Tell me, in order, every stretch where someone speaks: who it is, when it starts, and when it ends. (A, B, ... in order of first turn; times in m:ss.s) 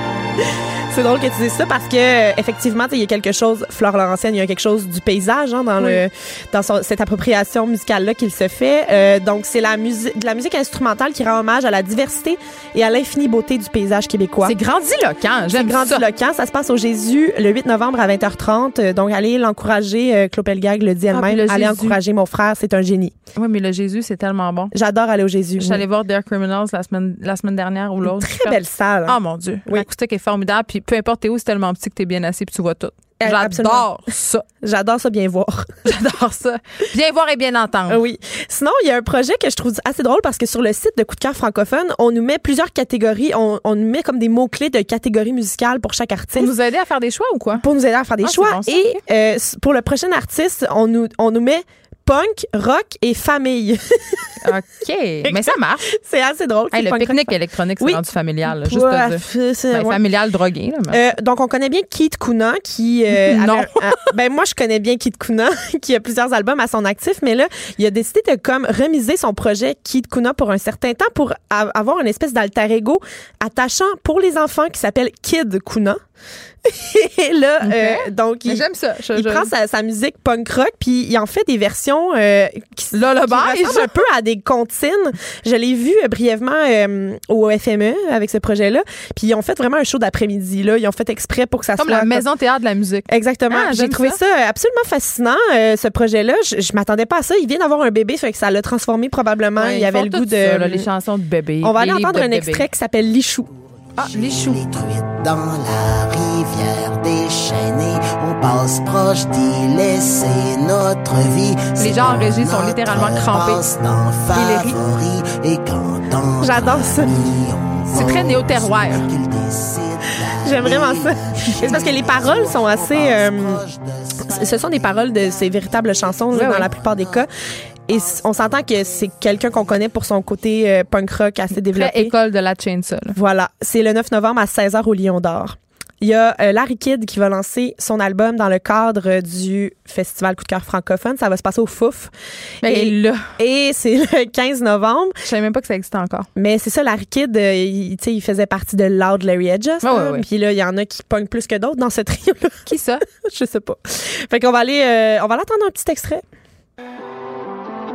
0:00.9-0:14.6 A
0:14.4-0:16.0 B
0:15.5-0:23.2 A
0:21.1-0:22.0 B
0:23.4-0:24.7 B
0:24.7-0:25.8 A
0:25.6-0:34.5 B
0:28.0-0:29.9 A
0:33.2-0:34.0 A
0:34.6-0:35.7 A
0:35.8-0:38.0 B
0:37.9-0:46.5 A
0:46.4-0:47.7 B
0:47.6-0:54.4 A
0:48.2-0:49.0 B
0:54.4-0:55.9 B
0:55.2-1:00.0 A
0:56.7-1:01.0 B
1:00.9-1:16.0 A
1:03.1-1:04.1 B
1:16.6-1:32.3 A
1:17.6-1:19.5 B
1:22.9-1:24.0 B
1:31.8-1:34.2 B
1:33.1-1:40.9 A
1:39.6-1:42.7 B
1:41.6-1:43.5 A
1:44.0-1:44.6 B
1:44.0-2:07.2 C
1:51.8-1:53.6 B
1:54.3-1:54.8 B
1:56.4-1:57.2 A
1:57.9-1:59.1 B
2:00.4-2:03.6 A
2:04.2-2:07.3 A
2:06.3-2:06.7 B
2:07.9-2:12.1 A
2:07.9-2:09.8 C
2:11.6-2:13.2 B
2:13.1-2:22.1 A
2:22.6-2:23.3 B
2:22.6-2:25.2 A
2:25.2-2:26.3 B
2:26.4-2:36.2 A
2:29.8-2:30.2 B
2:32.7-2:33.0 B